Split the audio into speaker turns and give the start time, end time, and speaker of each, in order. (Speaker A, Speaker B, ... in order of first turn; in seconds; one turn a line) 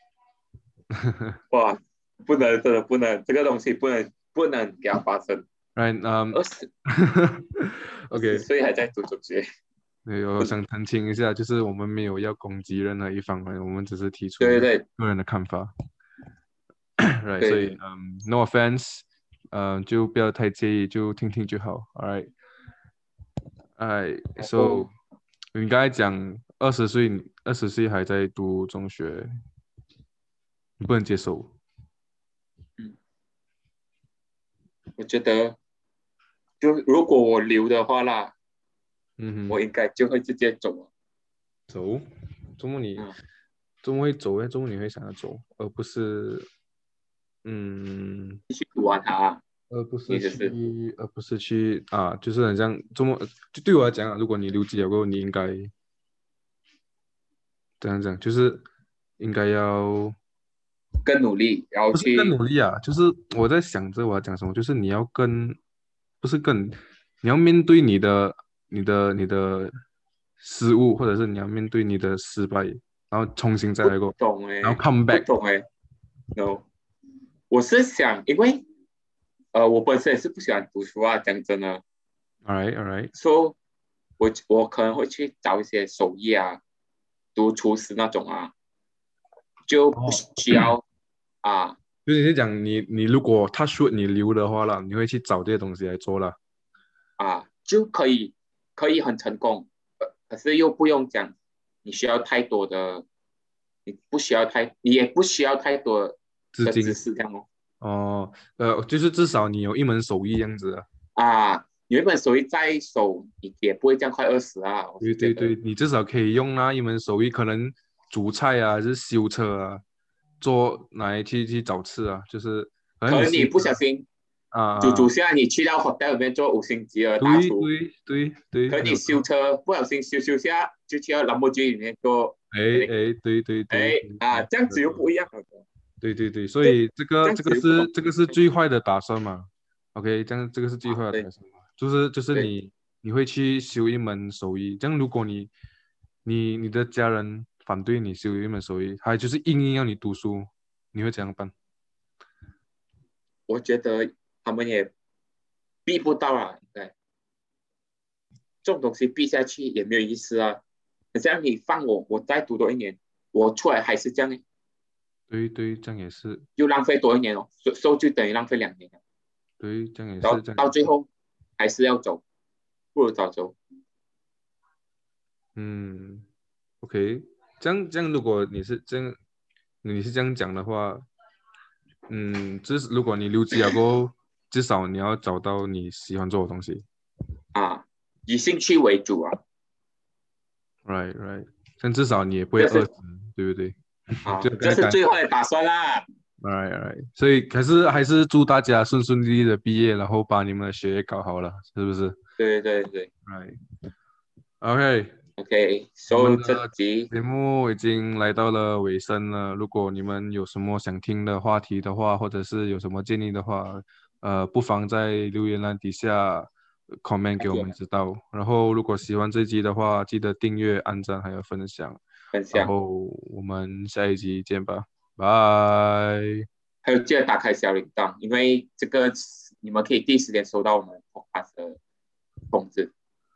Speaker A: 0.9-1.4
Speaker B: 1.5-5.5
Speaker A: 5.7-8.4
Speaker B: 6.3-6.7
Speaker B: 8.1-9.4
Speaker A: 10.1-15.7
Speaker B: 14.4-14.8
Speaker A: 17.0-22.3
Speaker B: 17.4-17.8
Speaker A: 23.8-24.9
Speaker B: 24.4-24.9
Speaker A: 25.5-29.3
Speaker A: 30.8-31.5
Speaker B: 35.0-35.6
Speaker B: 36.6-38.3
Speaker A: 39.2-39.6
Speaker B: 39.5-40.9
Speaker A: 41.7-42.0
Speaker A: 42.6-43.1
Speaker A: 43.8-46.5
Speaker A: 47.4-48.4
Speaker B: 48.5-49.4
Speaker A: 49.7-55.7
Speaker B: 50.1-50.5
Speaker A: 57.8-58.6
Speaker A: 59.2-60.1
Speaker B: 61.0-62.4
Speaker A: 61.9-65.6
Speaker A: 66.2-69.7
Speaker A: 70.4-75.3
Speaker B: 73.8-75.7
Speaker B: 76.3-76.6
Speaker B: 77.5-78.6
Speaker B: 79.5-81.8
Speaker A: 82.4-83.1
Speaker B: 83.1-83.5
Speaker B: 84.2-86.6
Speaker B: 87.3-88.5
Speaker B: 89.7-90.8
Speaker A: 89.9-90.7
Speaker B: 91.4-91.8
Speaker A: 92.0-96.4
Speaker B: 97.2-103.0
Speaker B: 103.8-107.5
Speaker A: 106.5-107.0
Speaker A: 107.8-110.8
Speaker B: 111.2-115.5
Speaker A: 115.0-119.8
Speaker A: 120.4-123.8
Speaker B: 123.1-124.1
Speaker A: 124.5-125.1
Speaker B: 124.8-127.7
Speaker A: 127.2-129.2
Speaker B: 128.7-132.9
Speaker A: 132.5-135.0
Speaker B: 133.7-135.6
Speaker A: 136.0-145.5
Speaker B: 136.6-138.3
Speaker B: 140.8-141.3
Speaker A: 146.2-151.5
Speaker B: 153.5-154.9
Speaker B: 155.8-156.9
Speaker B: 158.6-160.6
Speaker B: 161.1-164.4
Speaker A: 165.3-166.4
Speaker B: 166.6-168.9
Speaker A: 169.6-170.9
Speaker B: 170.2-171.1
Speaker B: 171.6-172.2
Speaker B: 172.9-173.6
Speaker A: 175.5-176.3
Speaker A: 176.8-179.2
Speaker A: 179.8-181.0
Speaker A: 182.1-186.8
Speaker B: 187.5-189.4
Speaker A: 190.8-195.0
Speaker B: 192.6-192.9
Speaker B: 194.2-196.0
Speaker A: 196.4-202.2
Speaker B: 202.4-203.1
Speaker A: 203.2-203.6
Speaker A: 204.6-205.2
Speaker B: 205.4-207.1
Speaker A: 206.1-216.5
Speaker A: 217.0-222.0
Speaker B: 217.4-217.7
Speaker B: 222.3-222.7
Speaker A: 222.5-226.4
Speaker B: 226.8-231.8
Speaker B: 232.5-232.9